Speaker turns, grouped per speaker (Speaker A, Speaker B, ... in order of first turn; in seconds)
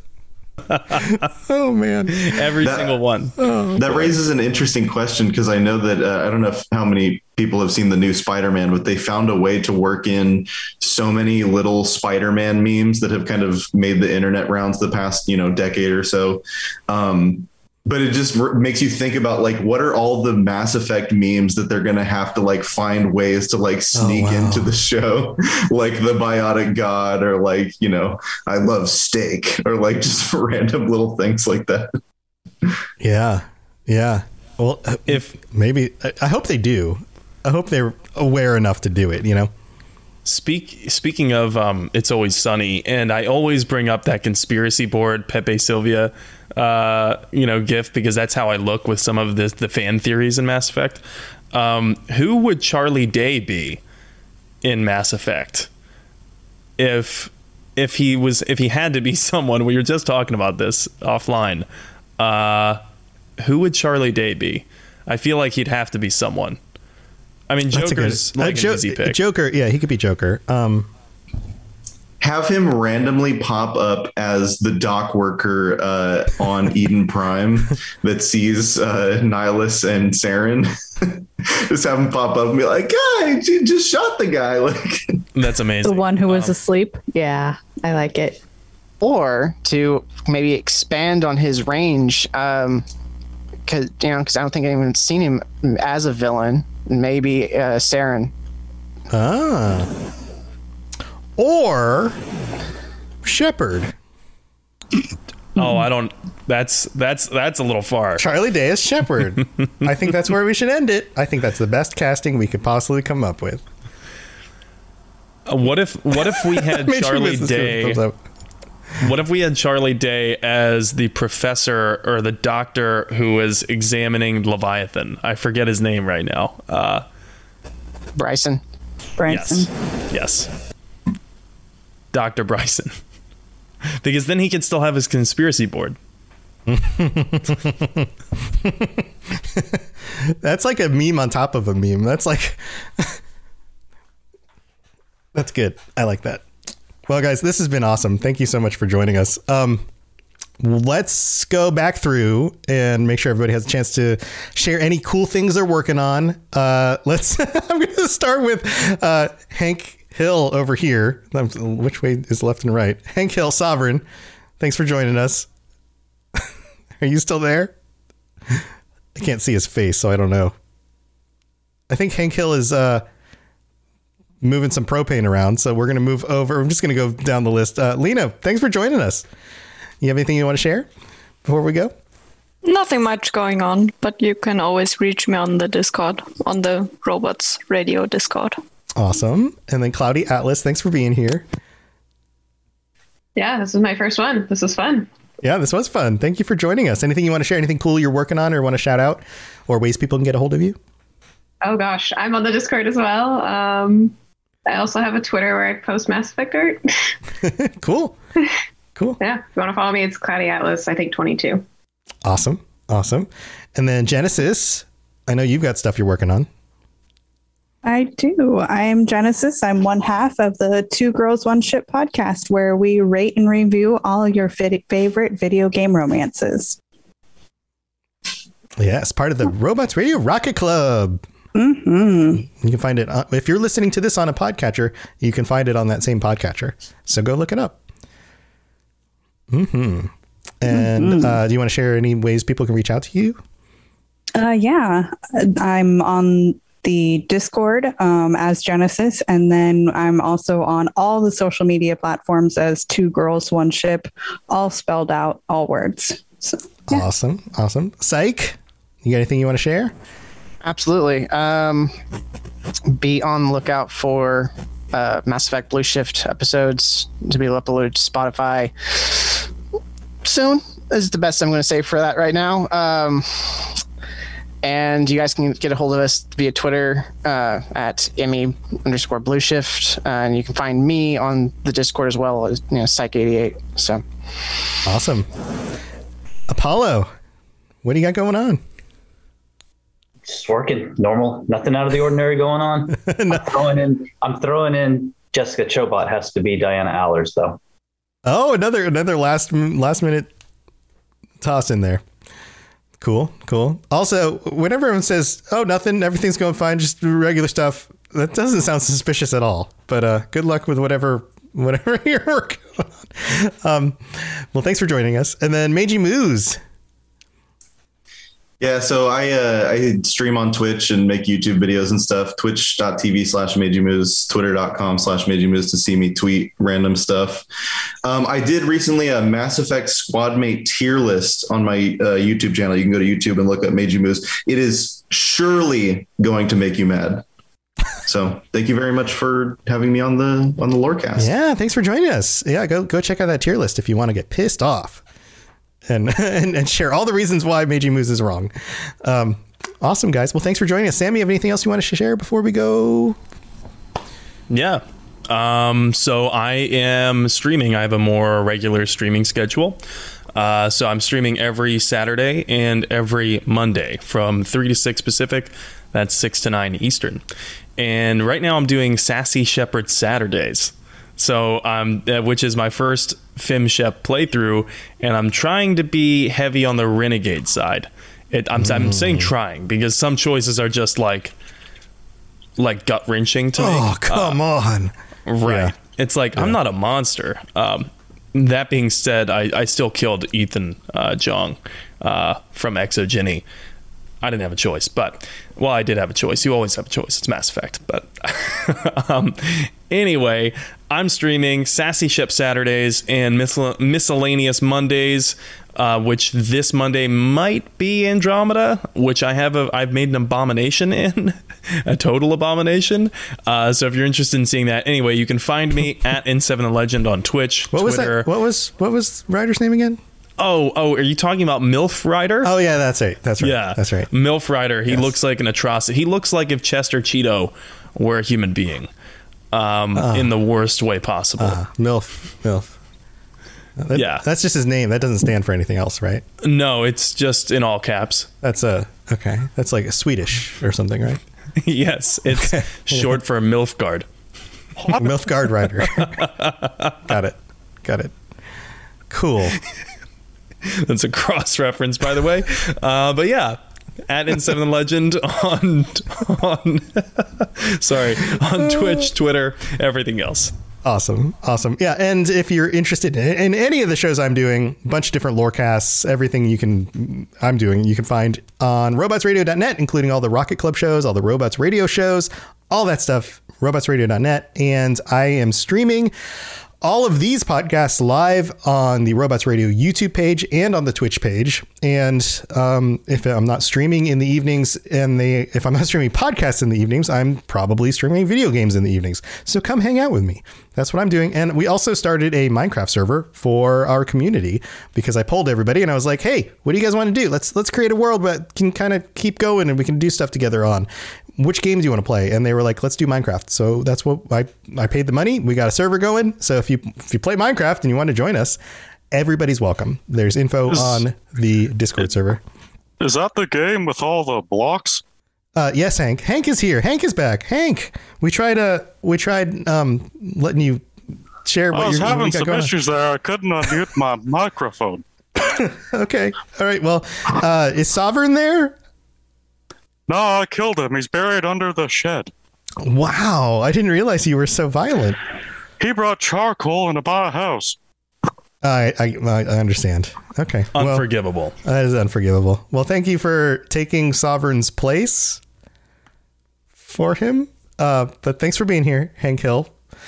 Speaker A: 0.7-1.2, 2.1-3.3, 35.1-35.3, 40.2-51.0, 51.5-53.8, 54.6-55.7, 56.8-61.7, 62.2-62.8, 63.4-66.6, 67.5-69.2, 85.3-86.5, 105.5-108.3, 115.5-118.0, 119.0-127.0, 129.3-130.5, 132.1-132.9, 134.0-136.0, 354.5-359.8, 360.3-367.2, 367.8-381.3, 382.6-384.4, 385.3-393.4, 394.2-418.3, 420.4-422.5, 423.4-428.9, 429.5-431.6, 433.9-434.2, 436.4-438.3, 441.6-444.1, 445.9-447.0, 450.7-453.6, 454.1-460.5, 540.8-541.5
Speaker B: 0.9-2.4, 3.4-4.1, 23.9-24.7, 33.0-39.5, 67.7-70.9, 99.1-99.9, 101.4-102.2, 103.2-103.9, 108.2-113.6, 116.2-118.2, 136.7-143.2, 145.3-146.4, 147.1-149.8, 150.6-164.0, 164.6-165.5, 167.0-167.7, 169.2-170.5, 171.9-173.0, 174.4-179.2, 180.0-180.9, 181.4-181.9, 189.0-191.5, 195.4-200.8, 207.4-208.2, 212.2-216.5, 228.8-231.2, 232.4-237.8, 239.5-243.4, 256.9-259.9, 284.8-285.3, 286.5-287.1, 287.8-288.6, 293.0-293.7, 298.2-300.3, 301.4-302.0, 303.0-316.6, 341.2-345.0, 345.9-353.2, 378.6-379.3, 383.6-384.9, 385.4-385.7, 417.7-420.0, 422.4-424.1, 430.0-430.3, 431.4-432.7, 433.8-436.2, 438.4-441.2, 442.3-443.2, 444.9-446.1, 447.1-448.1, 449.1-449.6, 460.8-476.1, 476.8-508.6, 509.1-512.4, 515.5-520.9, 521.5-522.7, 525.4-528.8, 532.8-535.2, 538.6-541.1, 541.6-545.4, 546.8-549.7
Speaker C: 2.6-2.9, 3.8-31.9, 72.2-85.1, 318.6-327.4, 328.0-337.2, 338.1-341.3
Speaker D: 85.8-88.4, 129.2-129.7, 217.8-226.8, 231.5-232.4, 240.7-241.4, 244.3-257.0
Speaker E: 89.0-92.8, 93.7-98.3, 128.2-128.6, 260.6-261.9, 262.9-269.5, 270.2-273.8, 274.6-284.7
Speaker F: 182.6-188.6
Speaker G: 193.4-195.1, 201.6-204.1, 204.7-206.8, 209.2-211.6
Speaker H: 290.2-297.6
Speaker I: 510.7-511.0, 513.0-515.0, 521.7-525.0, 530.1-532.3, 535.8-537.8